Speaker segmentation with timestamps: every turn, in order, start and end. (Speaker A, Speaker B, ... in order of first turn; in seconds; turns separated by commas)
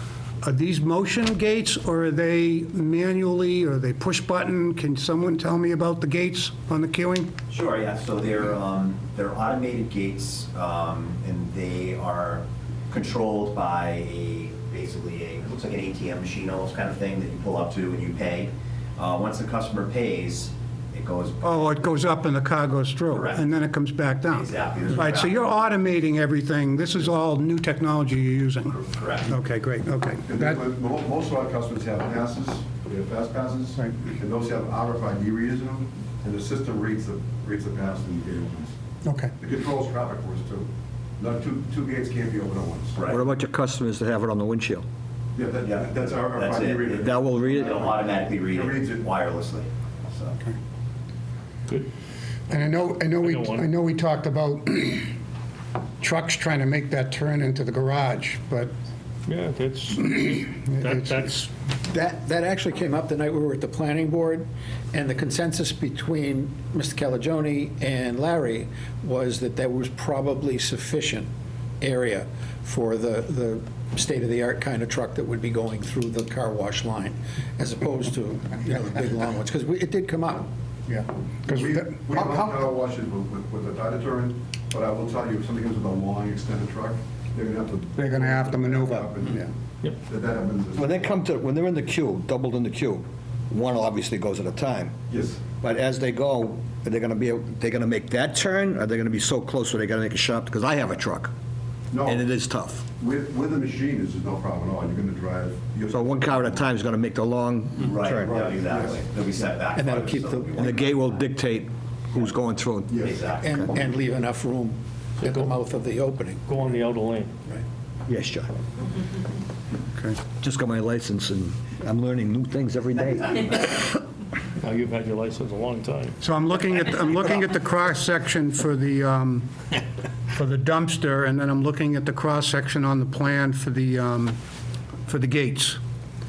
Speaker A: 0.4-7.3, Speaker B: 7.5-21.8, Speaker A: 21.4-30.6, Speaker B: 23.1-23.6, Speaker B: 24.3-25.5, Speaker B: 28.9-29.3, Speaker C: 30.2-38.8, Speaker A: 39.0-39.3, Speaker C: 39.4-40.7, Speaker C: 41.2-43.0, Speaker B: 42.9-43.2, Speaker D: 43.0-44.9, Speaker C: 45.3-49.2, Speaker B: 45.6-50.3, Speaker D: 47.0-47.8, Speaker A: 52.5-55.1, Speaker E: 53.2-53.7, Speaker A: 56.0-58.7, Speaker E: 59.3-61.4, Speaker A: 60.0-61.5, Speaker F: 61.9-71.3, Speaker F: 71.8-80.5, Speaker A: 80.9-82.5, Speaker C: 81.5-91.1, Speaker A: 88.0-89.5, Speaker D: 90.7-94.9, Speaker C: 95.1-95.4, Speaker D: 95.6-101.3, Speaker C: 101.9-102.3, Speaker D: 102.0-102.8, Speaker C: 103.0-106.6, Speaker D: 105.9-108.4, Speaker B: 107.8-111.3, Speaker C: 108.0-109.0, Speaker F: 109.7-110.5, Speaker D: 110.5-113.7, Speaker C: 112.9-113.2, Speaker B: 113.0-113.6, Speaker F: 113.4-116.4, Speaker E: 115.2-115.5, Speaker E: 116.5-117.3, Speaker D: 118.1-118.5, Speaker D: 120.4-123.9, Speaker E: 124.6-126.2, Speaker A: 126.2-129.5, Speaker A: 130.3-134.4, Speaker A: 135.1-135.8